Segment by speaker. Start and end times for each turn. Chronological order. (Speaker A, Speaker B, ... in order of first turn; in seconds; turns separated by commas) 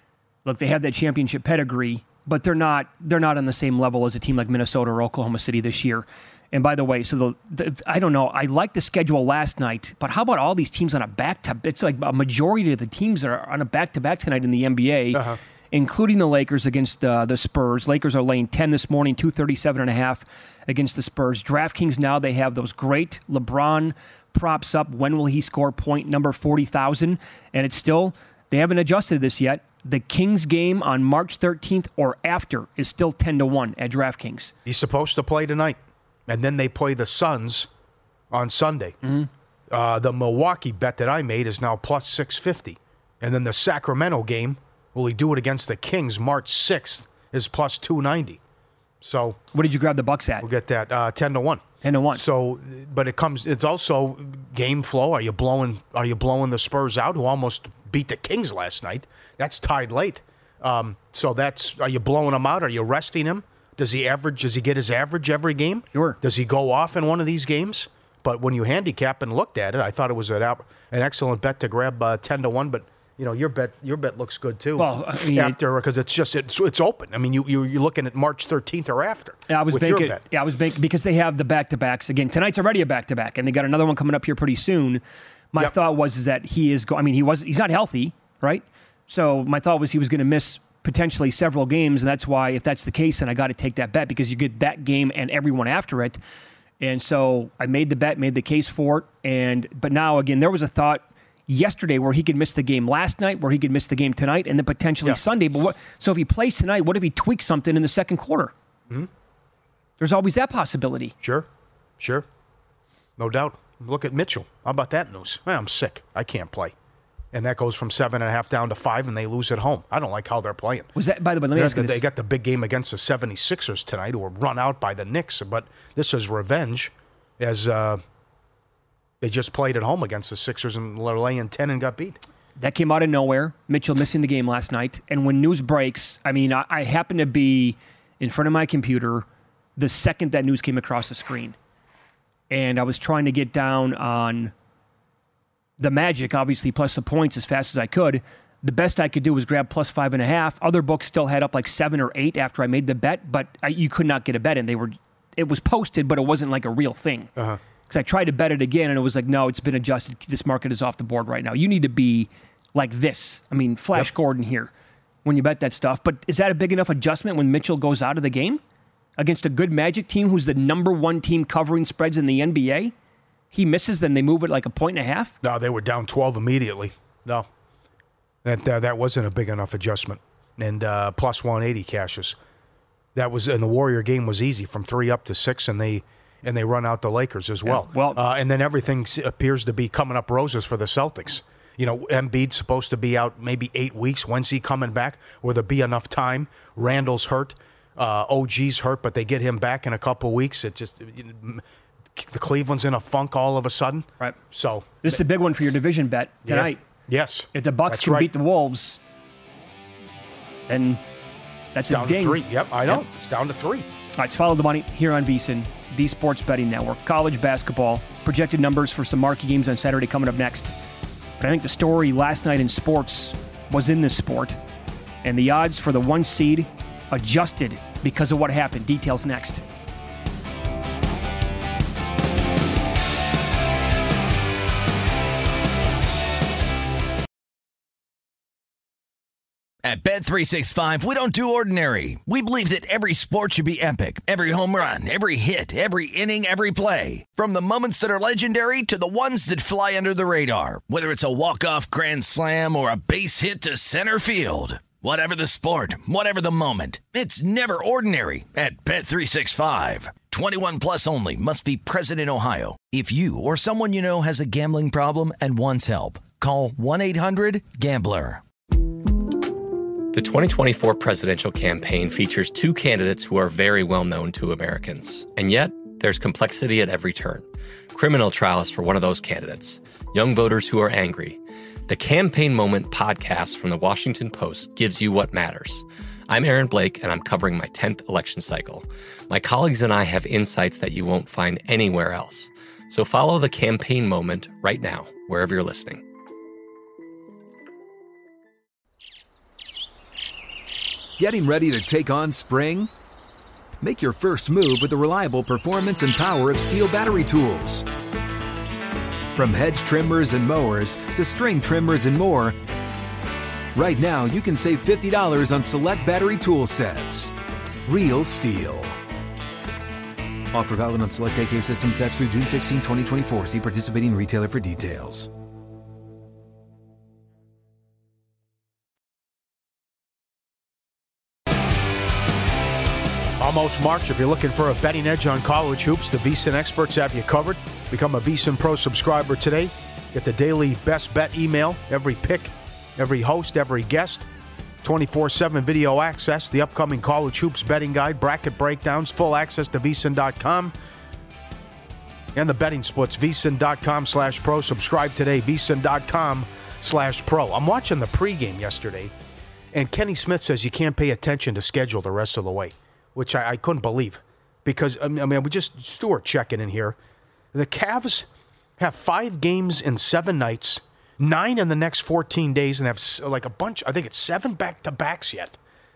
Speaker A: 0.4-34.5, Speaker B: 15.1-15.4, Speaker B: 34.6-37.7, Speaker B: 38.3-39.0, Speaker A: 39.0-39.3, Speaker B: 39.7-48.4, Speaker B: 49.0-49.4, Speaker A: 49.5-50.5, Speaker B: 50.4-80.2, Speaker A: 51.8-52.2, Speaker A: 65.9-66.2, Speaker A: 74.8-75.6, Speaker A: 79.5-85.0, Speaker A: 85.5-96.2, Speaker A: 96.8-108.5, Speaker A: 110.0-111.1, Speaker B: 111.2-111.5, Speaker B: 112.0-112.2, Speaker B: 113.2-116.7, Speaker B: 117.3-120.9, Speaker A: 120.9-122.0, Speaker B: 121.5-128.0, Speaker B: 129.2-132.2, Speaker A: 132.6-141.6, Speaker A: 142.5-144.5, Speaker A: 145.8-157.3, Speaker A: 157.9-164.7, Speaker A: 165.2-168.6, Speaker A: 169.2-172.9, Speaker A: 173.5-175.3, Speaker B: 175.4-177.5, Speaker B: 178.4-182.4, Speaker B: 183.1-201.6, Speaker A: 187.6-188.2, Speaker B: 202.1-205.2, Speaker A: 205.0-206.8, Speaker B: 206.4-208.3, Speaker A: 207.5-209.0, Speaker A: 210.7-211.0, Speaker A: 211.7-213.0, Speaker B: 211.9-213.9, Speaker A: 214.2-220.7, Speaker A: 221.4-224.6, Speaker A: 225.2-229.6, Speaker C: 239.8-268.4, Speaker D: 270.1-296.0, Speaker E: 301.2-302.9, Speaker E: 303.8-307.8, Speaker E: 309.4-312.6, Speaker E: 313.7-317.3, Speaker E: 317.9-319.0, Speaker E: 320.5-325.3, Speaker B: 333.4-344.3, Speaker B: 344.8-350.7, Speaker B: 352.3-359.1, Speaker B: 359.7-367.0, Speaker B: 367.5-375.6